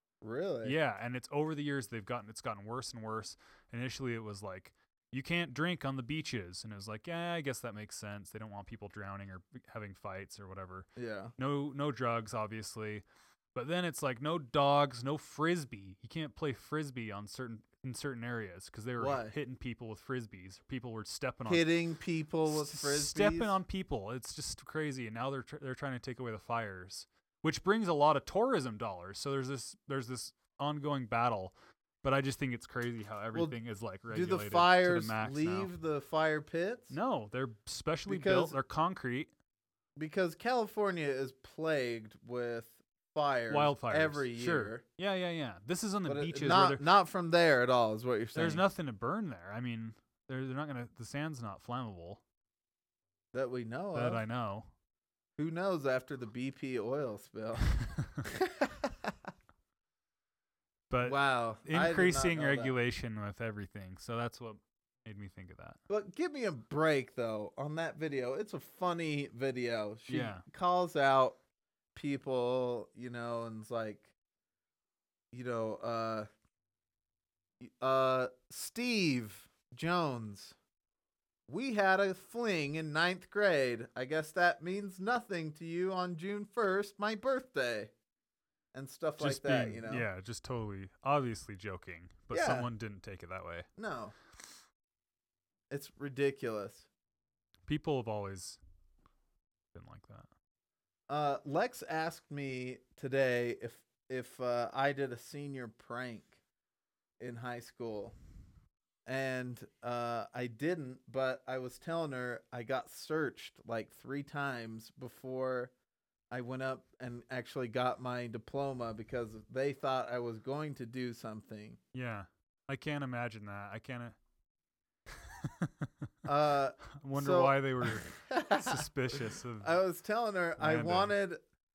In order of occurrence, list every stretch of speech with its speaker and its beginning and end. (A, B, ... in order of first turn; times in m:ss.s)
0:00.2-0:00.8 A
0:00.6-0:21.7 B
0:11.0-0:11.3 A
0:19.0-0:19.4 A
0:21.5-0:23.6 A
0:22.5-0:35.7 B
0:34.1-0:36.9 A
0:36.9-0:39.3 B
0:38.1-0:38.6 A
0:40.0-0:44.8 A
0:43.5-0:46.8 B
0:46.1-0:48.6 A
0:48.4-0:52.2 B
0:53.3-0:54.2 A
0:53.9-0:54.7 B
0:55.4-0:59.1 A
0:57.8-0:58.2 B
1:00.9-1:05.8 B
1:01.0-1:02.8 A
1:05.9-1:11.4 A
1:10.1-1:10.4 B
1:12.0-1:14.1 A
1:15.3-1:16.3 A
1:17.6-1:20.6 A
1:21.5-1:27.9 A
1:28.7-1:30.1 A
1:29.2-1:33.7 B
1:32.3-1:32.7 A
1:33.8-1:34.2 A
1:35.7-1:36.9 A
1:37.7-1:38.6 B
1:39.7-1:40.3 B
1:41.1-1:46.4 A
1:47.2-1:48.2 A
1:49.1-1:55.7 A
1:56.3-2:01.8 A
2:01.9-2:04.2 B
2:05.1-2:06.1 B
2:06.2-2:08.9 A
2:07.0-2:09.8 B
2:09.6-2:11.4 A
2:10.6-2:11.1 B